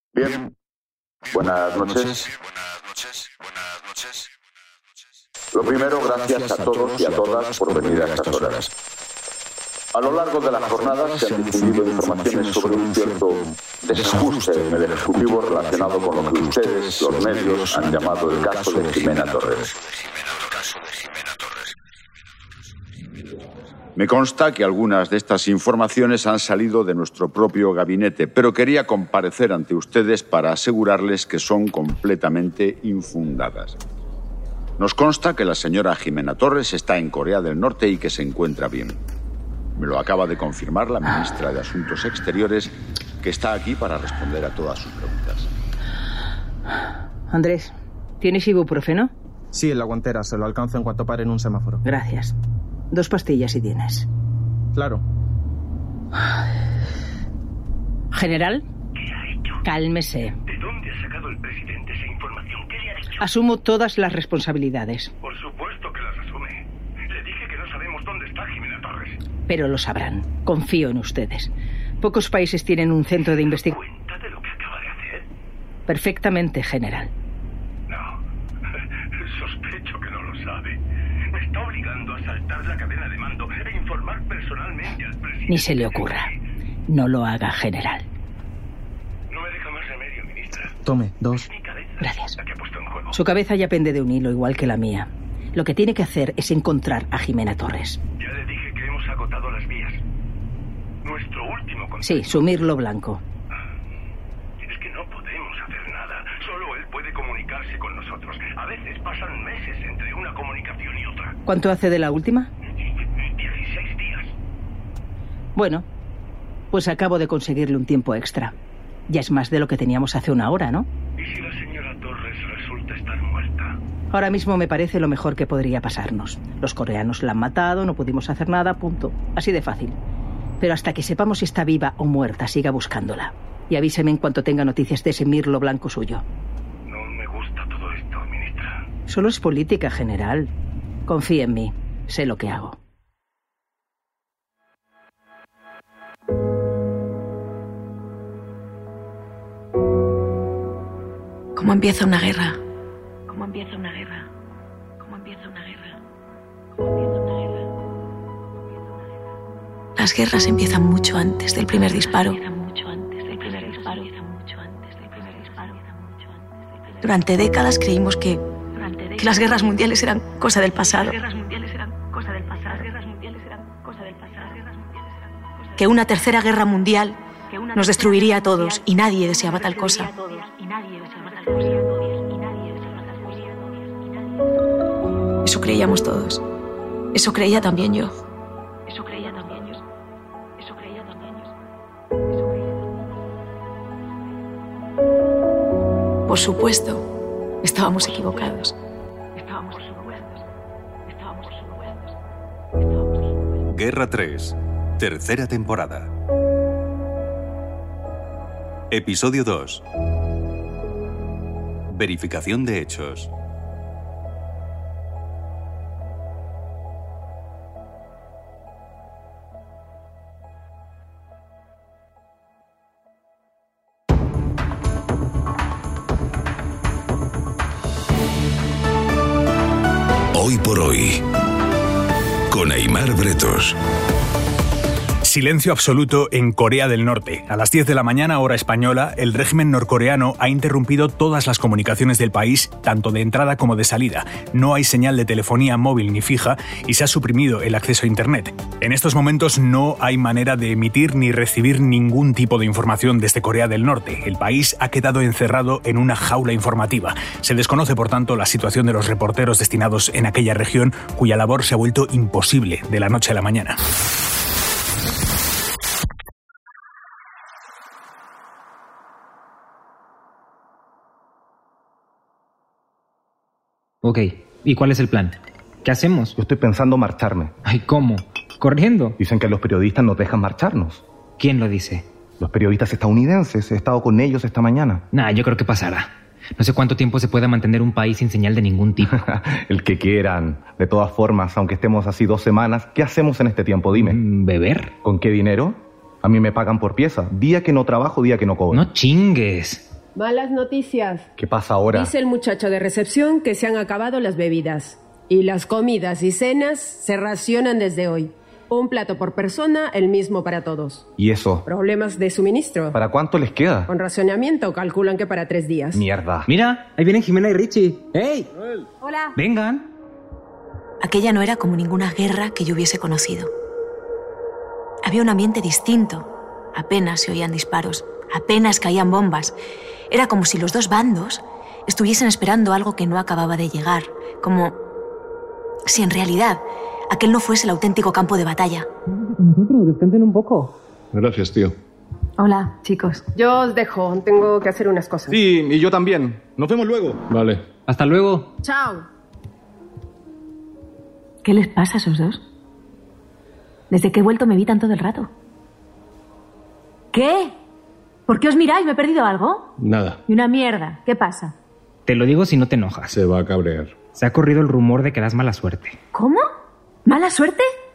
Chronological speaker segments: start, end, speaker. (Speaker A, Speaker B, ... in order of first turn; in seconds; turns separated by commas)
Speaker A: 0.1-0.5, Speaker A: 1.3-2.3, Speaker A: 5.5-8.7, Speaker A: 9.9-19.7, Speaker A: 23.9-33.8, Speaker A: 34.8-39.0, Speaker A: 39.8-45.5, Speaker B: 47.3-49.1, Speaker C: 49.5-51.8, Speaker B: 51.8-52.3, Speaker B: 52.9-54.0, Speaker C: 54.7-55.0, Speaker B: 58.1-58.6, Speaker D: 58.9-59.6, Speaker B: 59.6-60.4, Speaker D: 60.4-63.2, Speaker B: 63.2-65.1, Speaker D: 65.2-69.2, Speaker B: 69.5-71.5, Speaker B: 72.0-73.8, Speaker D: 73.5-75.3, Speaker B: 75.9-77.1, Speaker D: 77.9-78.2, Speaker D: 79.1-80.8, Speaker D: 81.3-86.3, Speaker B: 85.5-86.3, Speaker B: 86.9-88.0, Speaker D: 89.3-90.8, Speaker C: 90.8-91.5, Speaker D: 91.4-93.2, Speaker B: 92.0-92.4, Speaker B: 93.1-98.0, Speaker D: 98.2-100.0, Speaker D: 101.0-102.4, Speaker B: 102.0-103.2, Speaker D: 104.6-111.4, Speaker B: 111.5-112.5, Speaker D: 112.8-114.3, Speaker B: 115.5-115.8, Speaker B: 116.7-118.5, Speaker B: 119.1-120.9, Speaker D: 121.2-123.8, Speaker B: 124.1-130.0, Speaker B: 130.6-136.2, Speaker D: 136.8-138.8, Speaker B: 139.1-140.5, Speaker B: 141.1-142.8, Speaker E: 151.5-152.6, Speaker E: 153.3-154.3, Speaker E: 155.0-156.0, Speaker E: 159.9-165.8, Speaker E: 167.0-174.8, Speaker E: 175.6-183.5, Speaker E: 185.4-186.4, Speaker E: 187.1-188.2, Speaker E: 188.9-189.8, Speaker E: 190.6-191.4, Speaker E: 196.2-197.1, Speaker E: 197.6-198.8, Speaker E: 199.4-200.3, Speaker E: 201.1-201.7, Speaker F: 203.7-206.1, Speaker F: 208.9-209.8, Speaker F: 211.9-213.3, Speaker G: 230.3-231.2, Speaker G: 232.5-233.7, Speaker H: 235.2-263.8, Speaker I: 274.0-276.3, Speaker J: 276.4-277.5, Speaker I: 277.6-279.1, Speaker J: 279.2-281.0, Speaker I: 281.4-282.1, Speaker J: 282.4-285.0, Speaker I: 285.1-289.2, Speaker J: 289.1-294.2, Speaker I: 293.9-294.9, Speaker J: 295.0-298.8, Speaker I: 298.7-299.9, Speaker K: 300.1-301.3, Speaker J: 301.4-302.1, Speaker K: 301.9-311.1, Speaker J: 311.2-311.6, Speaker K: 311.6-313.0, Speaker J: 312.9-313.9, Speaker K: 313.9-316.0, Speaker J: 315.9-316.5, Speaker I: 316.4-318.5, Speaker E: 319.0-319.3, Speaker I: 319.4-319.9, Speaker E: 321.0-323.5, Speaker E: 325.0-329.6, Speaker E: 330.1-334.8, Speaker E: 335.8-338.9, Speaker I: 339.2-340.7, Speaker L: 341.1-341.7, Speaker E: 342.4-343.2, Speaker K: 343.3-345.4, Speaker C: 345.3-347.2, Speaker L: 347.3-347.6, Speaker I: 347.9-348.5, Speaker K: 348.6-349.1, Speaker E: 351.4-352.4, Speaker E: 353.9-355.3, Speaker E: 357.1-357.6, Speaker E: 358.3-359.7, Speaker L: 359.8-360.2, Speaker E: 360.3-361.5, Speaker I: 362.1-363.1, Speaker L: 363.1-364.0, Speaker I: 364.1-366.0, Speaker E: 366.1-366.4, Speaker E: 367.0-367.7